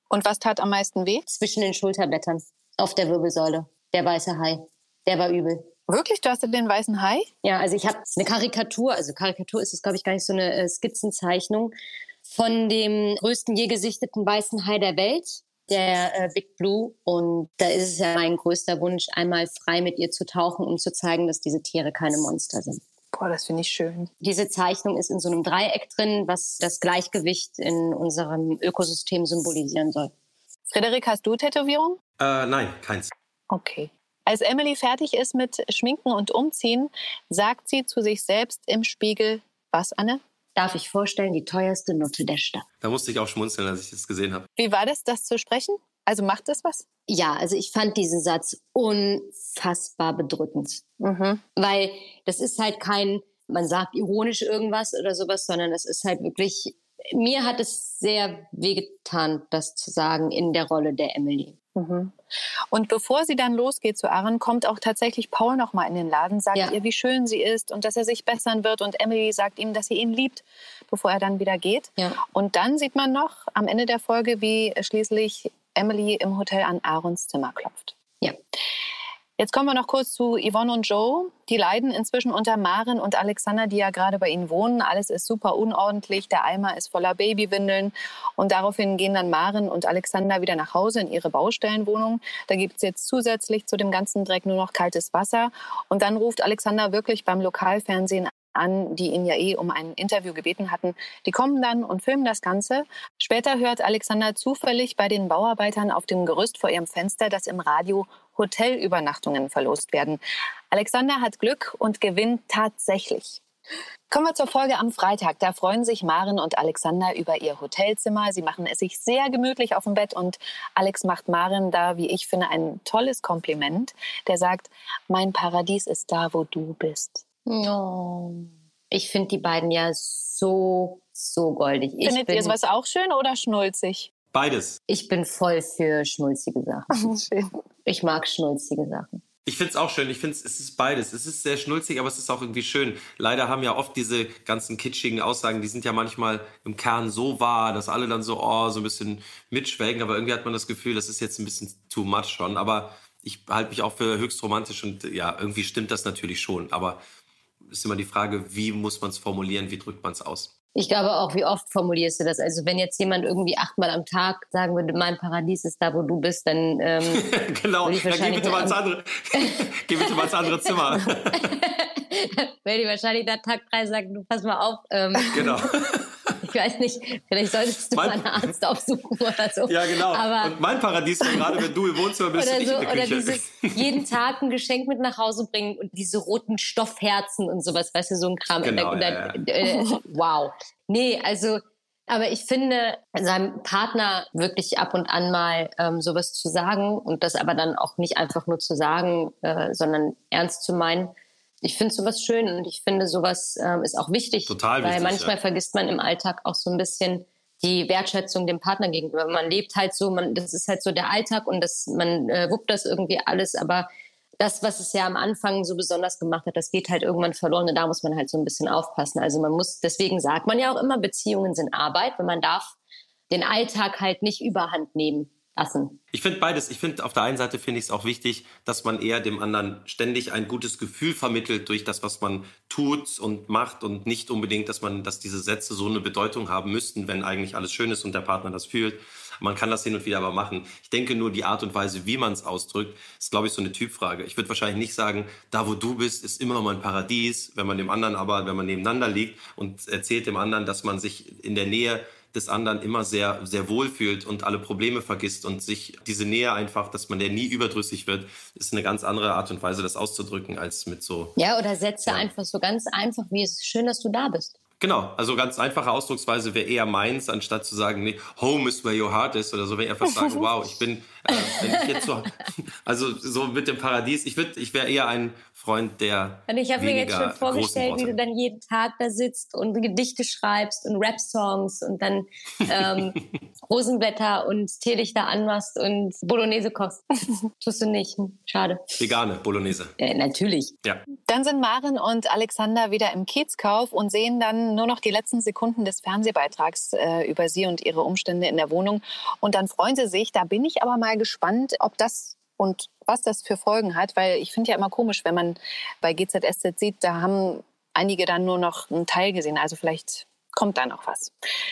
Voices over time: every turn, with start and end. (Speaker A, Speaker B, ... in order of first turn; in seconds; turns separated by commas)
Speaker A: 0.1-1.2, Speaker B: 1.3-5.7, Speaker A: 5.9-7.3, Speaker B: 7.4-11.7, Speaker B: 12.3-22.8, Speaker A: 23.1-24.1, Speaker B: 24.2-30.1, Speaker A: 30.7-32.0, Speaker C: 32.2-33.1, Speaker A: 33.5-40.2, Speaker B: 40.5-42.6, Speaker C: 42.8-44.5, Speaker A: 44.6-46.8, Speaker B: 47.1-50.8, Speaker A: 51.0-51.4, Speaker B: 51.6-61.5, Speaker A: 61.7-62.1, Speaker A: 62.7-77.9, Speaker A: 79.4-110.2, Speaker A: 110.7-113.4, Speaker A: 114.1-127.2, Speaker B: 127.5-132.6, Speaker A: 132.0-134.1, Speaker C: 134.3-134.8, Speaker B: 134.9-137.1, Speaker A: 136.9-137.5, Speaker B: 137.8-139.2, Speaker C: 139.4-157.0, Speaker C: 157.7-160.5, Speaker B: 160.8-167.3, Speaker C: 167.1-171.5, Speaker B: 167.8-168.8, Speaker B: 169.3-175.6, Speaker C: 175.3-176.3, Speaker B: 176.4-180.5, Speaker C: 177.9-178.4, Speaker C: 179.7-184.0, Speaker B: 181.3-181.6, Speaker B: 182.3-213.9, Speaker C: 188.6-189.4, Speaker C: 204.5-205.3, Speaker B: 214.4-222.7, Speaker B: 223.3-226.0, Speaker C: 226.1-261.3, Speaker B: 261.4-264.5, Speaker C: 264.8-278.1, Speaker B: 271.4-272.0, Speaker B: 276.5-287.0, Speaker B: 287.6-289.0, Speaker C: 289.0-289.9, Speaker B: 290.0-290.7, Speaker A: 291.3-311.3